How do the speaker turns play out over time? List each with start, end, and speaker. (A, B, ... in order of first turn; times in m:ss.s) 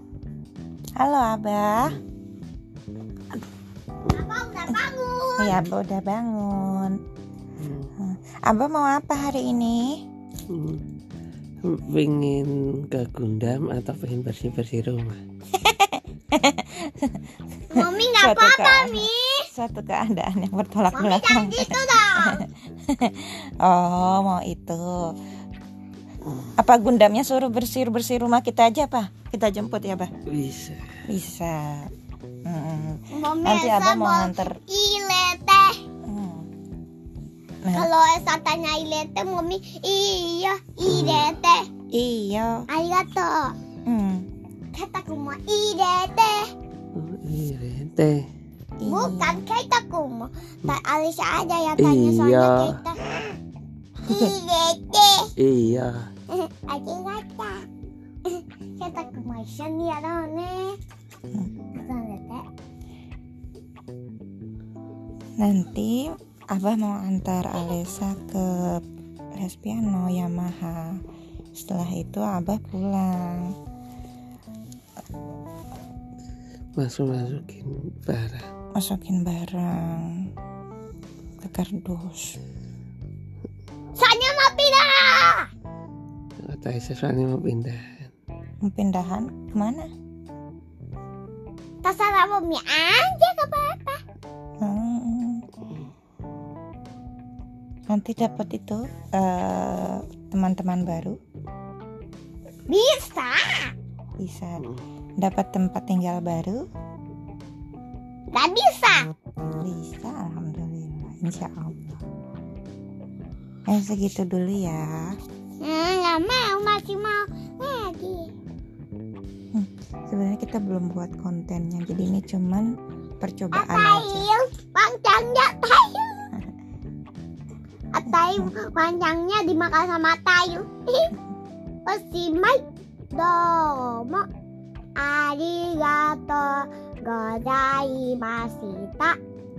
0:01.0-0:02.0 A
0:04.0-0:05.6 B
0:05.4-0:07.0 A
0:07.6-0:07.9 C
0:08.0-0:10.0 A
0:10.5-0:10.8 C
0:11.6-0:15.2 C
0:15.5-0:25.1 A
0:17.7-0:19.5 B
0:20.9-0:22.5 B
0:26.6-0:30.1 A
0:30.3-0:31.0 C
0:31.1-0:31.9 A
0:32.5-0:34.6 A
0:33.1-0:35.8 B
0:36.1-0:36.5 A
0:37.6-0:37.9 A
0:37.7-0:41.7 B
0:41.9-0:42.6 A
0:42.7-0:43.5 B
0:43.9-0:44.3 A
0:44.7-0:46.5 B
0:47.0-0:48.3 C
0:48.8-0:49.4 A
0:48.8-0:53.4 B
0:51.8-0:52.8 C
0:54.0-0:55.3 B
0:55.4-0:56.1 C
0:56.3-0:57.7 B
0:58.3-1:00.8 B
1:01.7-1:02.5 B
1:05.4-1:08.8 A
1:09.4-1:11.0 A
1:11.6-1:13.5 A
1:16.8-1:18.5 C
1:18.8-1:20.3 A
1:21.4-1:22.4 A
1:24.0-1:25.5 B
1:26.4-1:28.1 C
1:28.6-1:29.9 A
1:31.8-1:34.0 B
1:34.6-1:35.5 A
1:37.9-1:41.2 A
1:42.7-1:43.7 B
1:44.2-1:44.6 A
1:45.2-1:46.6 A
1:48.3-1:49.1 B
1:49.6-1:52.0 A
1:53.7-1:55.2 A
1:55.6-1:58.3 B
1:59.5-2:02.7 A
2:03.2-2:04.3 A
2:03.5-2:06.3 B
2:07.9-2:11.1 B
2:08.1-2:08.5 A
2:11.9-2:14.3 B
2:15.0-2:19.2 B